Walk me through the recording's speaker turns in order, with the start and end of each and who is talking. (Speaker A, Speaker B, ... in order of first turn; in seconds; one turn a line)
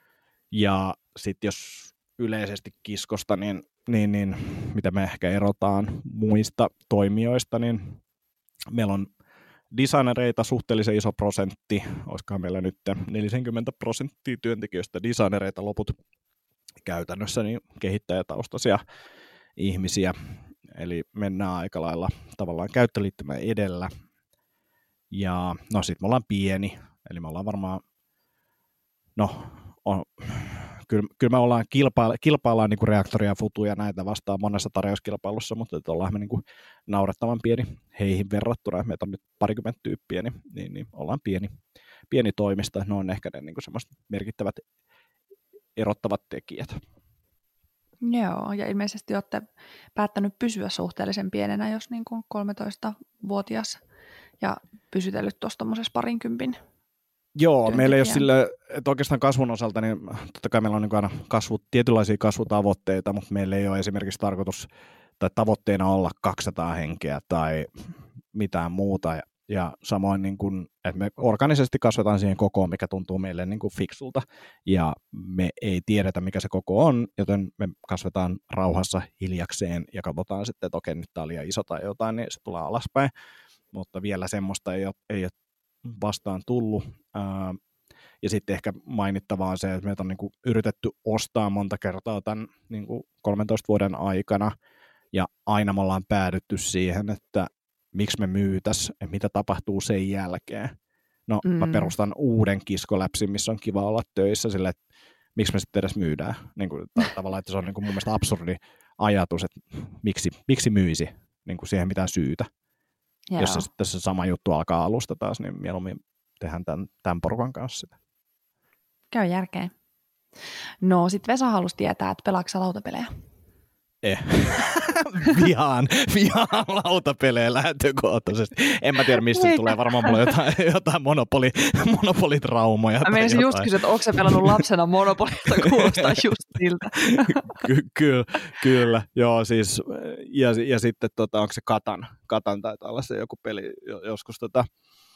Speaker A: 0.5-8.0
Speaker A: 8.7-9.1
Speaker A: 9.7-15.9
Speaker A: 16.8-18.8
Speaker A: 19.6-20.1
Speaker A: 20.7-23.9
Speaker A: 25.1-27.8
Speaker A: 29.2-41.5
Speaker A: 42.1-44.6
Speaker A: 45.8-46.8
Speaker B: 48.0-53.8
Speaker B: 54.4-56.6
Speaker A: 57.4-64.7
Speaker B: 57.7-58.3
Speaker A: 65.2-83.1
Speaker A: 83.7-85.3
Speaker A: 85.8-87.6
Speaker A: 88.2-94.5
Speaker A: 95.1-100.8
Speaker A: 101.3-104.8
Speaker B: 101.4-101.9
Speaker A: 105.4-112.5
Speaker B: 113.3-113.7
Speaker A: 113.4-117.9
Speaker B: 119.1-119.7
Speaker B: 120.8-123.1
Speaker A: 124.0-134.6
Speaker B: 129.3-130.3
Speaker B: 133.0-137.6
Speaker A: 135.6-136.2
Speaker A: 137.1-144.7